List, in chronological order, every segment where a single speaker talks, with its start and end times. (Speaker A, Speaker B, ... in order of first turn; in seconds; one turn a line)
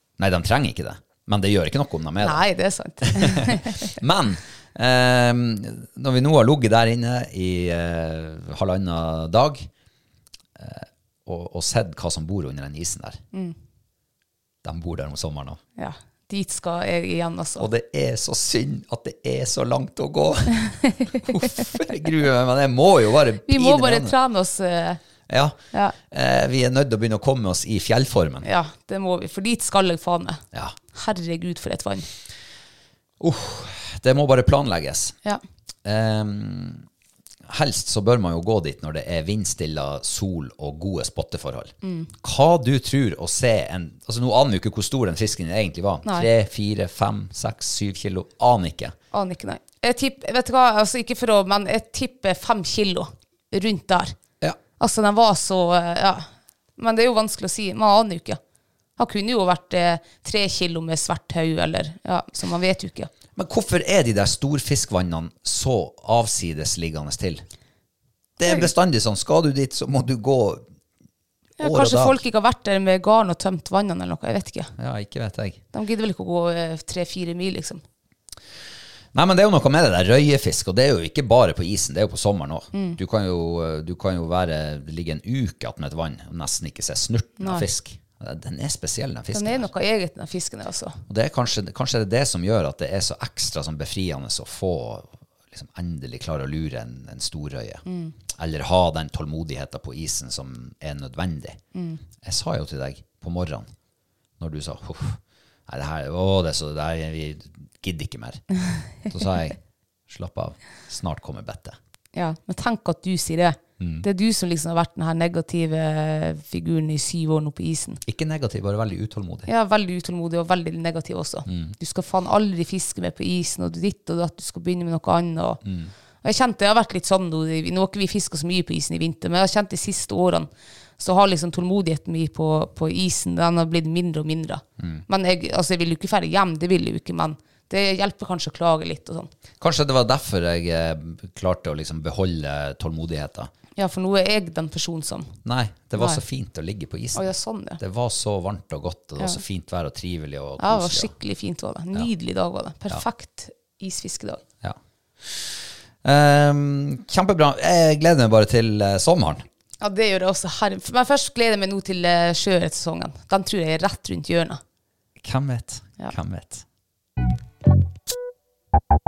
Speaker A: 0.2-2.4
Speaker B: 2.2-3.9
Speaker A: 3.0-9.7
Speaker A: 10.6-13.2
Speaker A: 14.6-15.6
Speaker B: 15.8-17.7
Speaker A: 17.6-24.1
Speaker B: 23.4-25.0
Speaker A: 25.3-25.6
Speaker A: 26.1-28.5
Speaker B: 28.4-30.4
Speaker B: 30.9-32.1
Speaker A: 33.2-35.1
Speaker A: 35.8-36.8
Speaker A: 37.5-49.0
Speaker B: 41.8-42.1
Speaker B: 49.1-54.1
Speaker B: 54.8-58.4
Speaker B: 59.0-63.1
Speaker A: 63.4-67.4
Speaker A: 68.4-70.7
Speaker B: 71.6-74.7
Speaker A: 71.6-72.2
Speaker A: 74.8-75.6
Speaker B: 75.7-77.8
Speaker A: 79.1-89.7
Speaker B: 82.7-83.0
Speaker B: 87.4-87.7
Speaker B: 89.3-91.0
Speaker A: 91.1-101.6
Speaker B: 97.8-98.1
Speaker B: 101.7-102.0
Speaker A: 102.2-103.7
Speaker A: 104.4-108.4
Speaker A: 109.0-109.6
Speaker A: 110.1-111.8
Speaker B: 112.1-118.0
Speaker A: 113.8-114.0
Speaker A: 118.0-119.5
Speaker B: 119.5-125.6
Speaker A: 121.5-121.8
Speaker A: 125.6-125.9
Speaker B: 126.2-139.3
Speaker A: 134.8-135.0
Speaker A: 139.6-143.5
Speaker B: 143.8-145.3
Speaker A: 145.4-151.1
Speaker B: 147.1-147.8
Speaker B: 150.6-154.4
Speaker A: 154.6-159.4
Speaker B: 159.8-164.6
Speaker A: 165.2-166.6